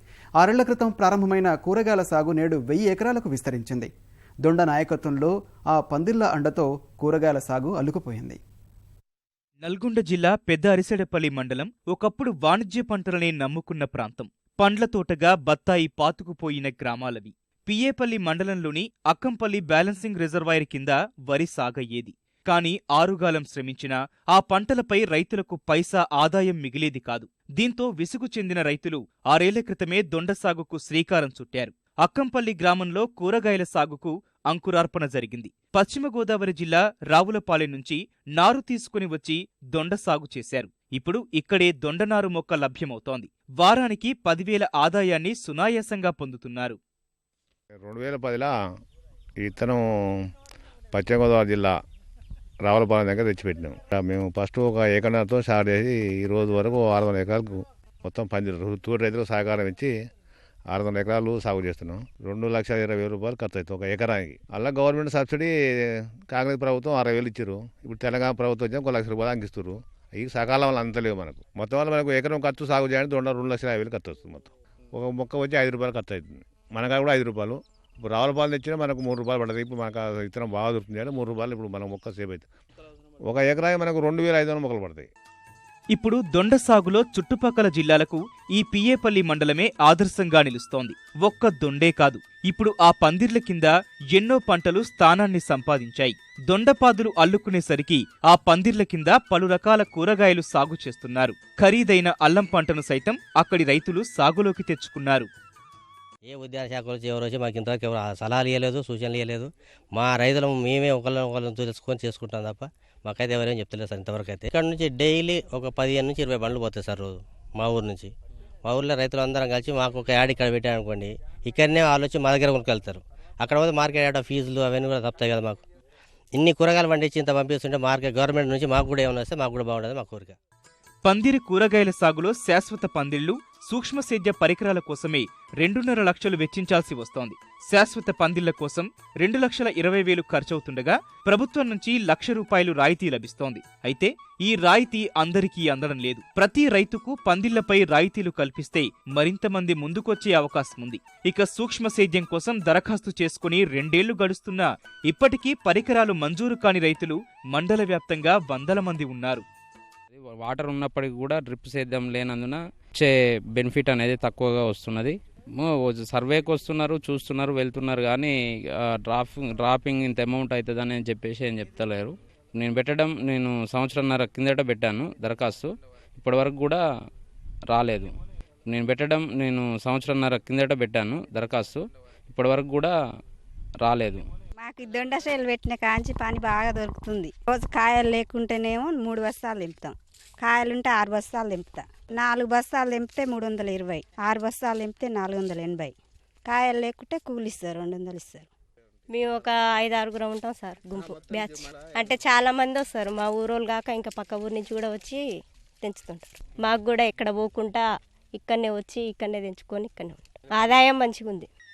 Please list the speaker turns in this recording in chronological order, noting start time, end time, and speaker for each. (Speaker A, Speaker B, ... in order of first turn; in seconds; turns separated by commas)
Speaker A: 0.4-3.9, Speaker A: 4.4-8.4, Speaker B: 9.6-46.8, Speaker C: 47.8-48.5, Speaker C: 49.4-49.8, Speaker C: 50.9-51.7, Speaker C: 52.6-59.9, Speaker C: 60.7-82.5, Speaker C: 83.3-85.1, Speaker B: 85.9-105.3, Speaker D: 106.3-118.1, Speaker D: 118.6-125.6, Speaker D: 126.3-130.3, Speaker B: 131.0-159.4, Speaker E: 160.1-176.8, Speaker E: 177.7-178.1, Speaker E: 178.7-182.9, Speaker E: 183.8-184.2, Speaker F: 184.6-195.9, Speaker F: 196.4-198.5, Speaker G: 199.1-205.2, Speaker G: 205.8-207.8, Speaker G: 208.3-211.5